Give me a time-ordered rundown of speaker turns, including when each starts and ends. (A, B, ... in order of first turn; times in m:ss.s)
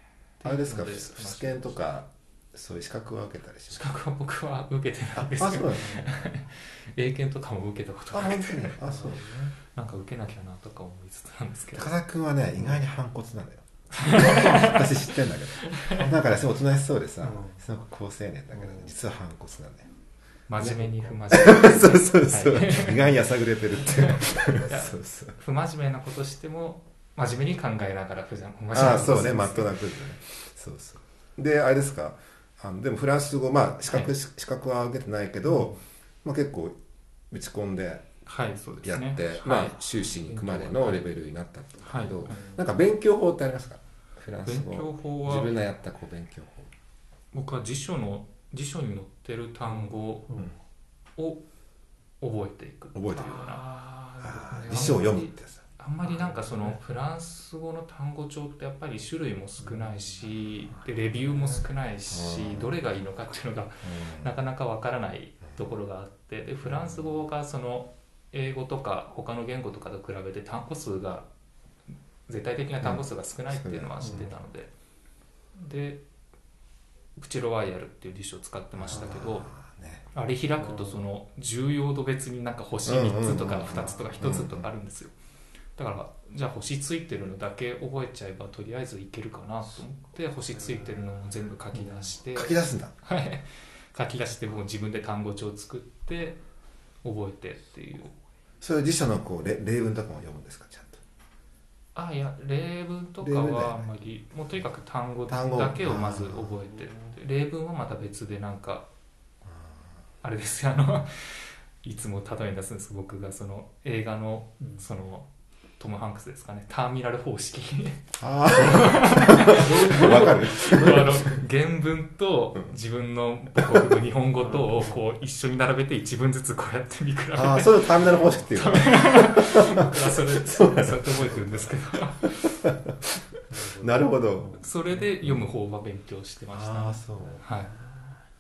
0:00.4-0:01.8 A
0:00.4-0:03.8 B
0:03.7-0:08.8 A
0:05.2-0:06.0 B
0:05.7-0:06.3 C
0:08.1-0:09.3 B
0:08.8-0:09.6 C
0:09.7-0:11.9 A
0:11.8-0:19.9 B
0:14.0-0:15.1 A
0:15.6-0:16.1 A
0:17.2-0:17.6 C
0:18.5-0:18.9 C
0:20.5-0:23.2 A
0:20.6-0:25.4 B
0:23.9-0:29.8 A
0:28.7-0:36.8 B
0:35.5-0:35.8 C
0:37.3-0:38.1 B
0:38.3-0:41.0 A
0:38.8-0:46.7 B
0:41.8-0:42.4 A
0:42.3-0:42.6 C
0:44.4-0:45.6 A
0:47.3-0:50.4 A
0:49.7-0:50.6 C
0:51.2-0:51.4 A
0:52.2-0:53.6 A
0:53.0-0:53.5 B
0:53.1-0:55.2 C
0:54.2-0:55.6 B
0:54.7-1:11.3 A
0:56.0-0:56.8 C
0:59.6-1:00.3 C
1:01.2-1:01.6 C
1:02.1-1:02.8 B
1:03.8-1:04.3 B
1:06.7-1:07.0 B
1:12.3-1:14.7 A
1:12.8-1:14.3 B
1:14.0-1:14.3 C
1:15.6-1:16.0 A
1:17.2-1:19.5 A
1:18.8-1:20.0 B
1:20.1-1:25.1 A
1:20.6-1:21.0 C
1:22.8-1:24.7 B
1:25.8-1:36.4 A
1:32.3-1:32.9 B
1:37.0-1:38.1 A
1:38.6-1:41.0 B
1:42.0-1:48.9 A
1:43.2-1:43.9 B
1:45.3-1:46.7 B
1:49.5-1:50.0 B
1:50.2-1:55.3 A
1:54.6-1:54.9 C
1:55.8-2:12.6 A
1:58.2-2:01.4 B
1:59.4-2:01.2 C
2:03.6-2:04.0 B
2:04.4-2:05.0 C
2:07.3-2:11.8 B
2:12.4-2:13.0 B
2:13.5-2:15.0 C
2:13.8-2:14.6 B
2:14.6-2:17.7 A
2:16.5-2:17.4 B
2:17.2-2:18.1 C